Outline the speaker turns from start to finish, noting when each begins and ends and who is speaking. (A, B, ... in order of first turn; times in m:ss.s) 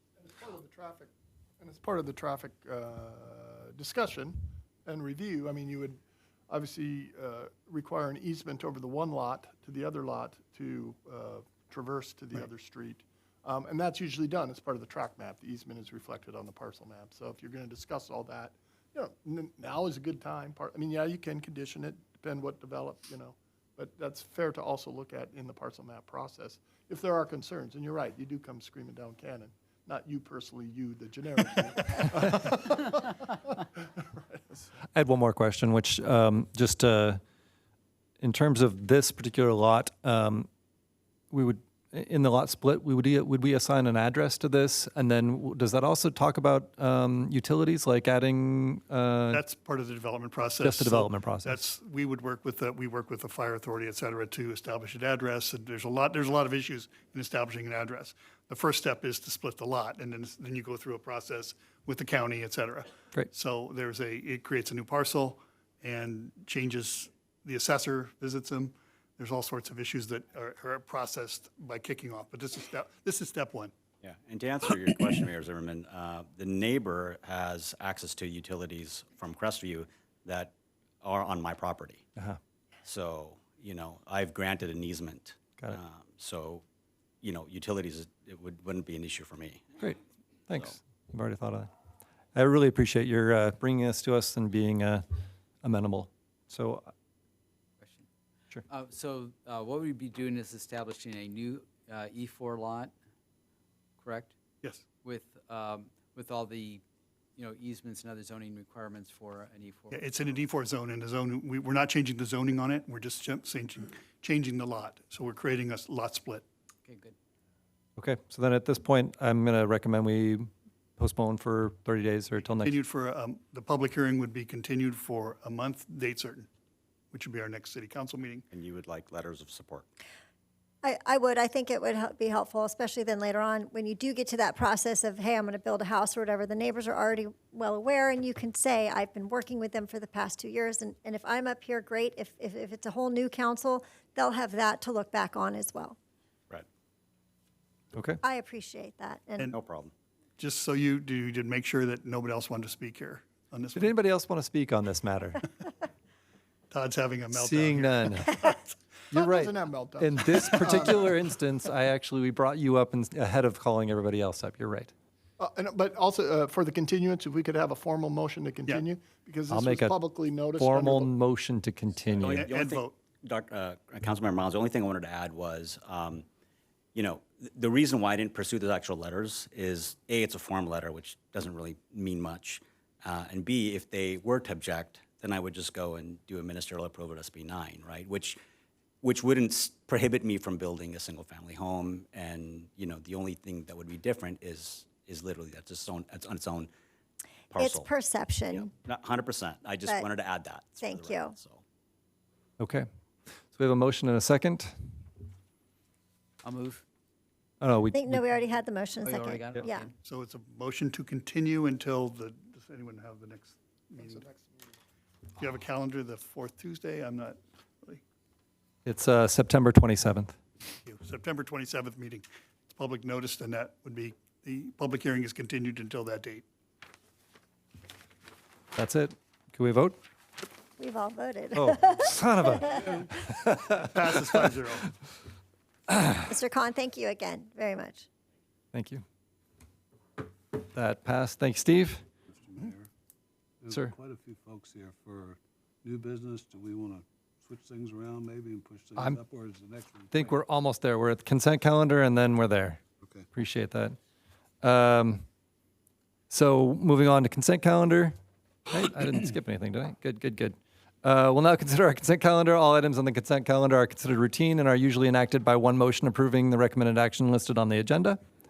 0:00.2-0:34.7 A
0:34.9-0:37.2 B
0:38.2-0:40.5 B
0:41.3-0:49.4 B
0:49.3-1:13.7 C
0:50.6-0:51.6 B
1:14.0-1:22.0 D
1:22.8-1:26.6 D
1:27.2-1:29.6 D
1:29.8-1:31.7 B
1:32.3-1:35.0 B
1:35.6-1:36.9 B
1:37.8-1:38.1 E
1:38.7-1:42.9 E
1:44.0-1:44.3 E
1:45.0-1:46.8 E
1:47.4-1:50.0 E
1:49.9-1:56.4 C
1:56.8-1:57.1 E
1:58.0-2:02.8 B
2:02.6-2:06.5 C
2:07.1-2:08.4 C
2:08.5-2:09.8 D
2:10.8-2:26.0 F
2:27.9-2:28.2 B
2:28.2-2:29.5 F
2:29.5-2:29.9 D
2:30.4-2:33.9 C
2:33.7-2:35.4 B
2:36.7-2:38.7 C
2:37.3-2:38.3 B
2:39.1-2:41.1 A
2:39.1-2:44.9 B
2:45.4-2:51.1 A
2:49.5-2:50.0 B
2:50.5-2:52.5 B
2:52.2-2:56.2 D
2:52.2-2:52.9 C
2:56.9-3:08.4 D
3:09.0-3:16.7 D
3:17.5-3:17.9 D
3:17.5-3:18.7 F
3:18.5-3:21.6 D
3:20.8-3:21.4 F
3:22.6-3:22.8 B
3:23.5-3:24.9 B
3:26.4-3:26.8 E
3:27.6-3:28.3 B
3:27.9-3:29.9 F
3:29.0-3:29.9 E
3:30.0-3:34.3 C
3:34.0-3:34.7 A
3:35.4-3:38.0 C
3:38.8-3:40.4 B
3:40.8-3:46.4 C
3:48.7-3:50.0 B
3:50.8-3:52.8 F
3:51.5-3:53.6 B
3:53.7-3:54.9 C
3:56.2-3:58.1 F
3:58.7-3:59.0 B
4:00.7-4:02.0 B
4:02.3-4:02.9 G
4:03.6-4:10.3 G
4:10.1-4:14.0 B
4:14.6-4:15.2 B
4:16.3-4:18.1 B
4:18.7-4:28.2 B